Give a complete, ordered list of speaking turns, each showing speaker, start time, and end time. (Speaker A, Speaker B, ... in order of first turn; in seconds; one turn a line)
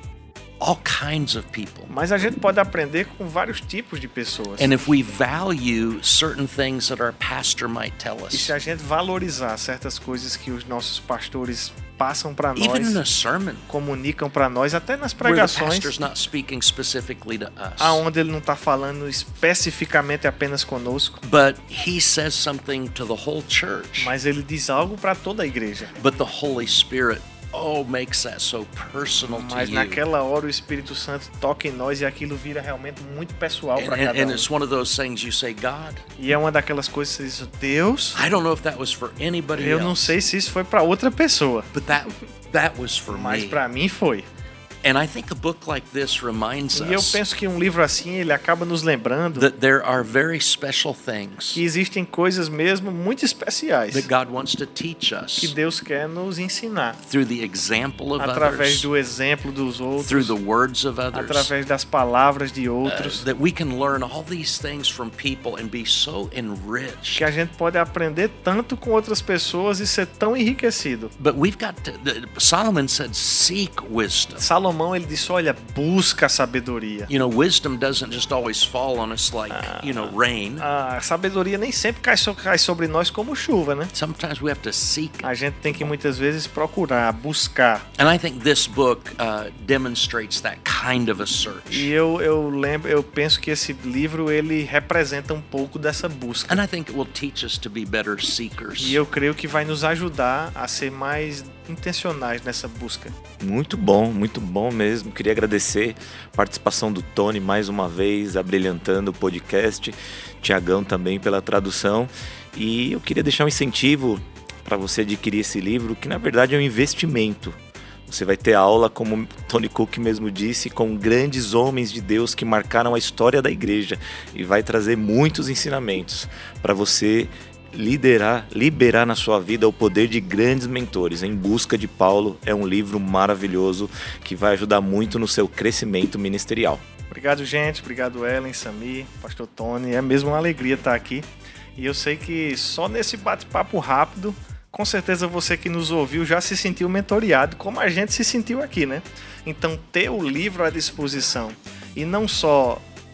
Speaker A: 0.6-1.9
Speaker B: 1.9-4.7
Speaker A: 4.6-8.5
Speaker B: 8.3-13.0
Speaker A: 12.6-13.7
Speaker B: 13.7-16.0
Speaker A: 15.2-18.0
Speaker B: 17.8-21.2
Speaker A: 21.2-24.1
Speaker B: 24.0-25.9
Speaker A: 26.0-30.0
Speaker B: 29.2-34.5
Speaker A: 33.8-36.0
Speaker B: 36.2-38.2
Speaker A: 38.1-40.1
Speaker B: 39.5-41.7
Speaker A: 41.7-43.6
Speaker B: 43.1-44.2
Speaker A: 44.8-47.2
Speaker B: 46.7-49.5
Speaker A: 49.3-51.6
Speaker B: 51.5-54.1
Speaker A: 53.9-55.5
Speaker B: 55.4-57.0
Speaker A: 57.0-58.9
Speaker B: 58.2-60.3
Speaker A: 60.0-61.5
Speaker B: 61.1-63.2
Speaker A: 62.8-67.3
Speaker B: 67.2-71.1
Speaker A: 71.2-74.5
Speaker B: 74.4-77.1
Speaker A: 77.1-80.7
Speaker B: 79.5-83.9
Speaker A: 83.9-85.9
Speaker B: 85.2-87.9
Speaker A: 88.0-91.9
Speaker B: 91.7-96.6
Speaker A: 96.5-99.0
Speaker B: 98.8-103.1
Speaker C: 103.4-136.8
Speaker B: 137.1-152.8